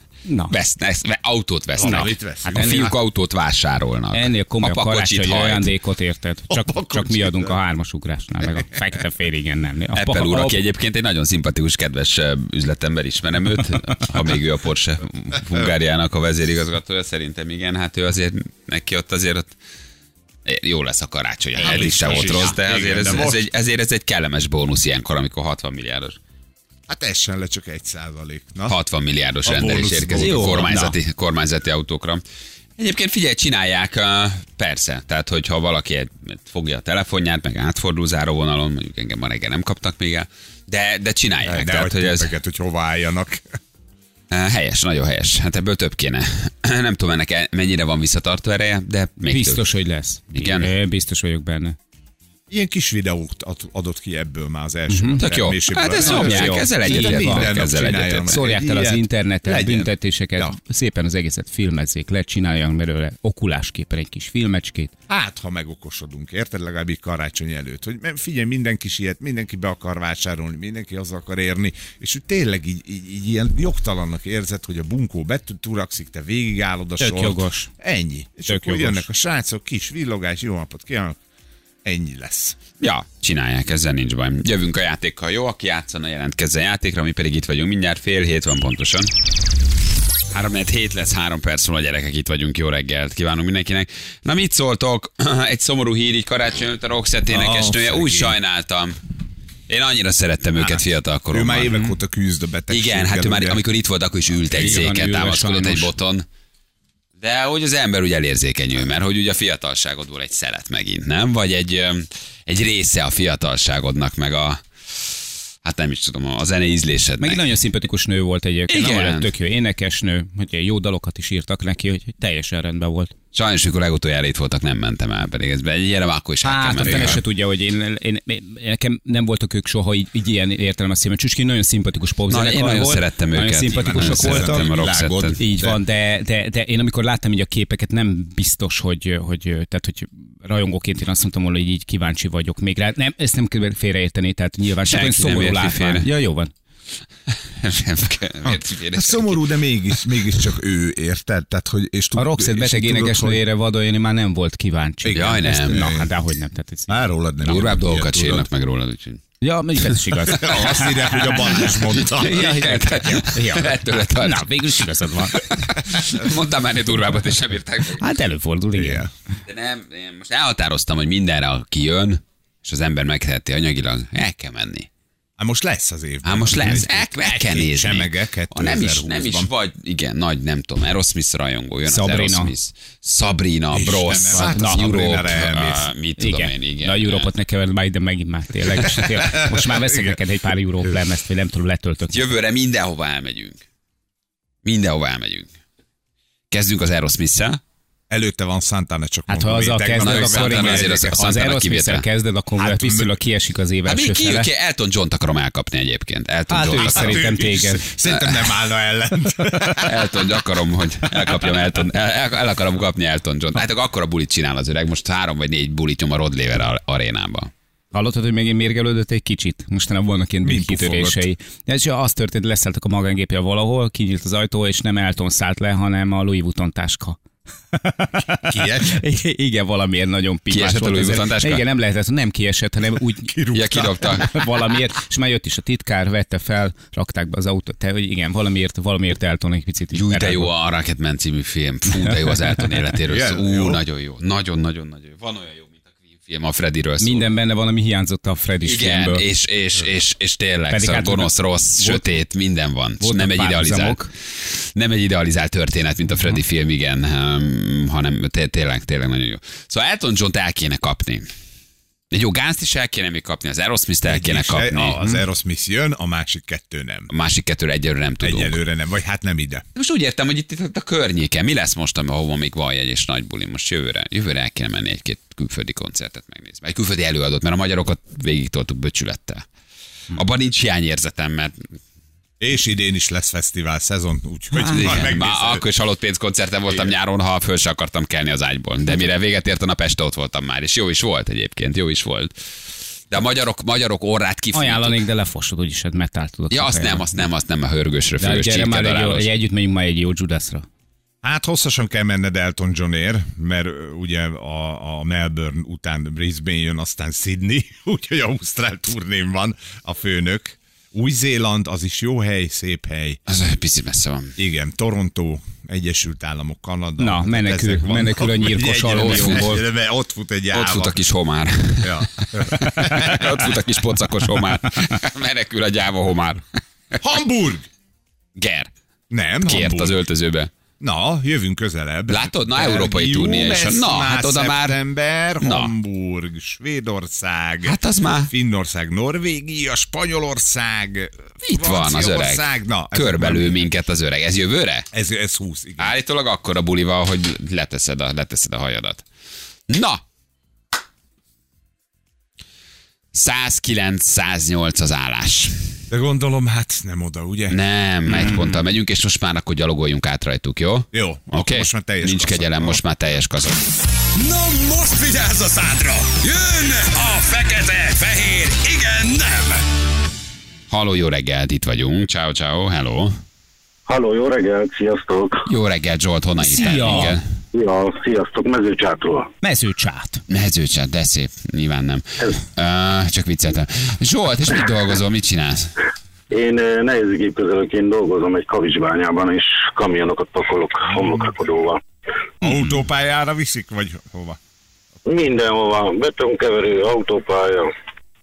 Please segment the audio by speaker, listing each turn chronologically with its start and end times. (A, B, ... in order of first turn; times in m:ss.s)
0:00.3-0:00.5 A
0:00.5-0:05.7 B
0:01.8-0:03.0 C
0:01.8-0:02.9 A
0:04.1-0:10.6 A
0:06.5-0:07.6 C
0:09.9-0:19.6 B
0:20.5-0:26.2 B
0:21.6-0:22.5 A
0:21.6-0:23.5 C
0:26.9-0:28.8 C
0:28.7-0:32.2 B
0:29.4-0:30.7 C
0:30.2-0:31.0 A
0:32.8-0:42.3 B
0:41.4-0:43.6 C
0:44.3-0:49.6 B
0:49.3-0:51.8 A
0:50.3-0:50.7 B
0:52.5-1:00.6 C
0:54.9-0:55.2 A
0:55.2-0:58.4 B
0:56.0-0:57.5 A
0:58.3-1:04.9 A
1:05.1-1:21.2 C
1:17.0-1:17.7 A
1:18.5-1:19.0 A
1:21.8-1:22.6 C
1:22.8-1:29.1 B
1:30.3-1:39.0 B
1:37.3-1:38.4 C
1:39.7-1:42.0 B
1:40.6-1:43.6 C
1:42.7-1:46.3 B
1:44.5-1:45.9 A
1:47.2-1:55.1 B
1:55.6-1:57.4 B
1:57.2-2:03.1 A
1:58.7-1:59.3 B
2:03.3-2:07.2 B
2:06.4-2:14.7 A
2:06.8-2:07.2 C
2:12.3-2:15.4 B
2:13.7-2:15.8 C
2:15.4-2:26.5 A
2:24.8-2:26.1 B
2:27.5-2:29.6 B
2:28.4-2:33.4 C
2:32.2-2:37.0 A
2:35.0-2:36.1 C
2:35.1-2:35.9 B
2:36.9-2:38.5 C
2:37.4-2:39.2 B
2:39.4-2:45.5 A
2:40.2-2:42.8 C
2:42.0-2:44.8 B
2:45.3-2:48.0 B
2:48.0-2:49.1 A
2:48.8-2:49.1 C
2:49.4-2:54.9 B
2:55.4-2:59.5 C
2:56.2-3:07.3 B
3:01.9-3:02.5 A
3:03.7-3:05.9 C
3:04.3-3:04.9 A
3:06.2-3:12.3 A
3:08.8-3:10.2 C
3:12.1-3:13.6 B
3:14.6-3:15.5 B
3:16.5-3:17.6 B
3:18.1-3:21.3 C
3:19.3-3:24.5 A
3:20.0-3:22.0 B
3:22.6-3:23.2 C
3:23.9-3:27.3 B
3:26.5-3:27.9 A
3:26.7-3:30.2 C
3:28.0-3:28.5 B
3:29.7-3:37.5 B
3:31.1-3:31.4 C
3:37.9-3:47.2 A
3:40.4-3:41.3 C
3:47.7-3:53.4 A
3:48.4-3:49.0 C
3:50.5-3:51.6 B
3:53.3-3:54.4 C
3:53.5-3:54.3 B
3:54.1-4:00.5 A
3:59.9-4:07.3 B
4:02.0-4:02.3 A
4:03.1-4:03.8 C
4:07.0-4:09.2 A
4:08.6-4:21.3 B
4:10.7-4:12.2 A
4:13.0-4:14.1 A
4:22.1-4:25.0 B
4:24.0-4:27.1 C
4:27.1-4:28.6 B
4:28.2-4:29.6 C
4:29.8-4:39.5 B
4:40.1-4:41.7 B
4:42.4-4:45.6 C
4:44.6-4:45.0 A
4:44.7-4:52.3 B
4:53.1-4:55.0 B
4:54.5-4:57.1 A
4:56.5-4:59.3 B
4:58.2-5:00.7 A
5:01.2-5:13.2 C
5:13.3-5:14.4 B
5:14.4-5:21.0 C
5:17.0-5:19.6 A
5:18.9-5:19.5 B
5:20.5-5:26.4 B
5:21.8-5:23.5 C
5:27.0-5:27.7 C
5:28.4-5:28.7 B
5:29.1-5:30.0 C
5:29.4-5:30.5 B
5:30.8-5:43.7 C
5:32.1-5:34.8 B
5:35.4-5:35.7 B
5:37.6-5:38.3 B
5:41.4-5:44.9 B
5:44.9-5:46.0 C
5:45.8-5:49.0 B
5:49.7-5:50.0 B
5:53.1-5:55.6 B
5:55.9-5:57.6 C
5:57.5-6:03.6 B
5:58.1-5:58.6 C
6:00.9-6:02.8 C
6:04.2-6:09.6 D
6:10.7-6:13.2 B
6:13.9-6:15.5 E
6:15.5-6:17.2 B
6:16.4-6:17.2 A
6:17.5-6:19.3 E
6:19.4-6:20.2 A
6:20.3-6:25.8 B
6:26.3-6:31.8 E
6:32.4-6:34.4 C
6:35.1-6:37.7 E